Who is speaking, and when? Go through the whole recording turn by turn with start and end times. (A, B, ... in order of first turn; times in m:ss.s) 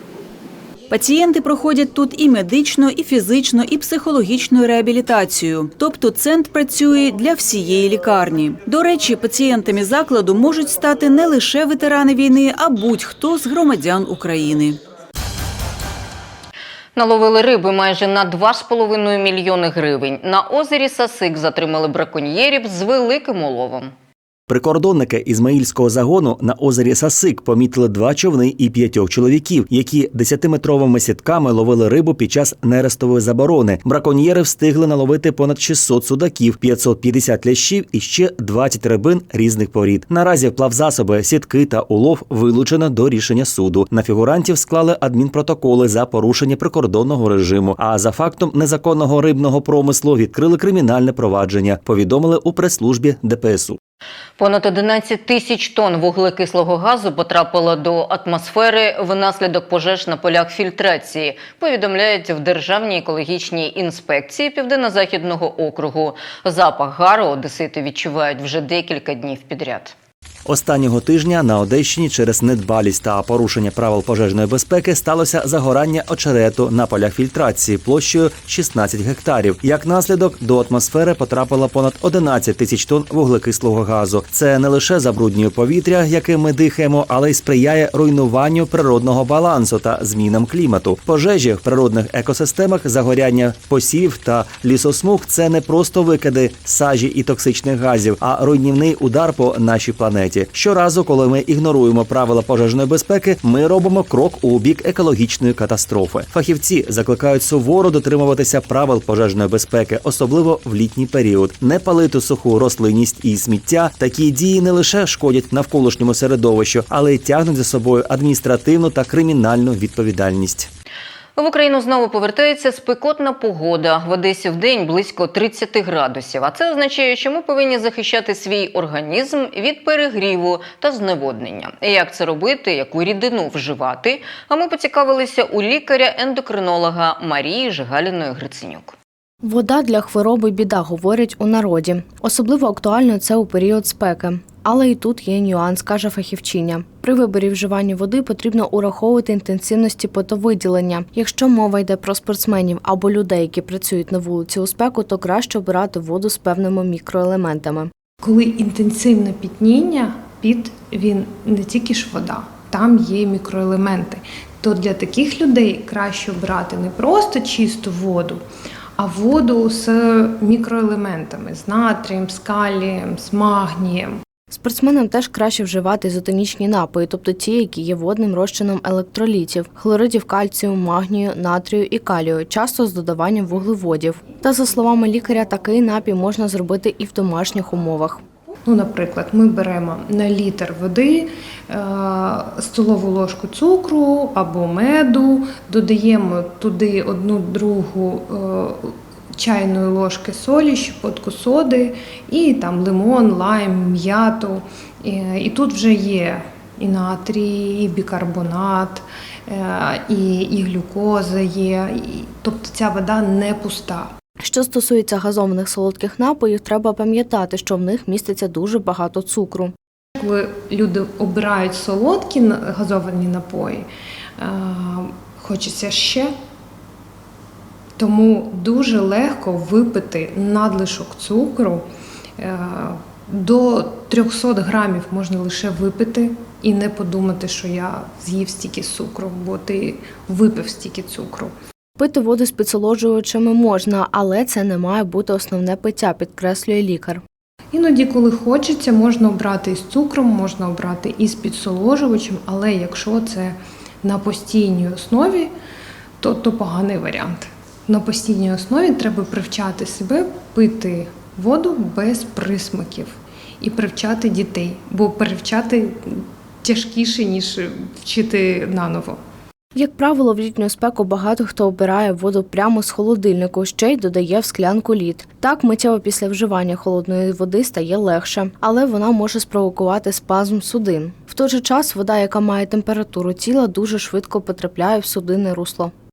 0:00.9-0:14.8 A
0:17.0-0:23.9 B
0:24.5-0:53.8 C
0:54.4-1:09.9 B
1:10.4-2:00.7 C
2:01.4-2:18.9 B
2:19.4-2:37.9 D
2:38.2-2:48.4 E
2:49.0-2:54.2 E
2:54.5-3:08.2 D
3:08.7-3:34.1 E
3:34.4-3:39.7 D
3:40.2-3:43.9 E
3:44.4-3:46.3 E
3:48.0-3:51.8 E
3:52.4-4:01.5 E
4:02.0-4:07.2 D
4:07.7-4:15.5 E
4:16.2-4:29.2 E
4:29.7-4:45.9 D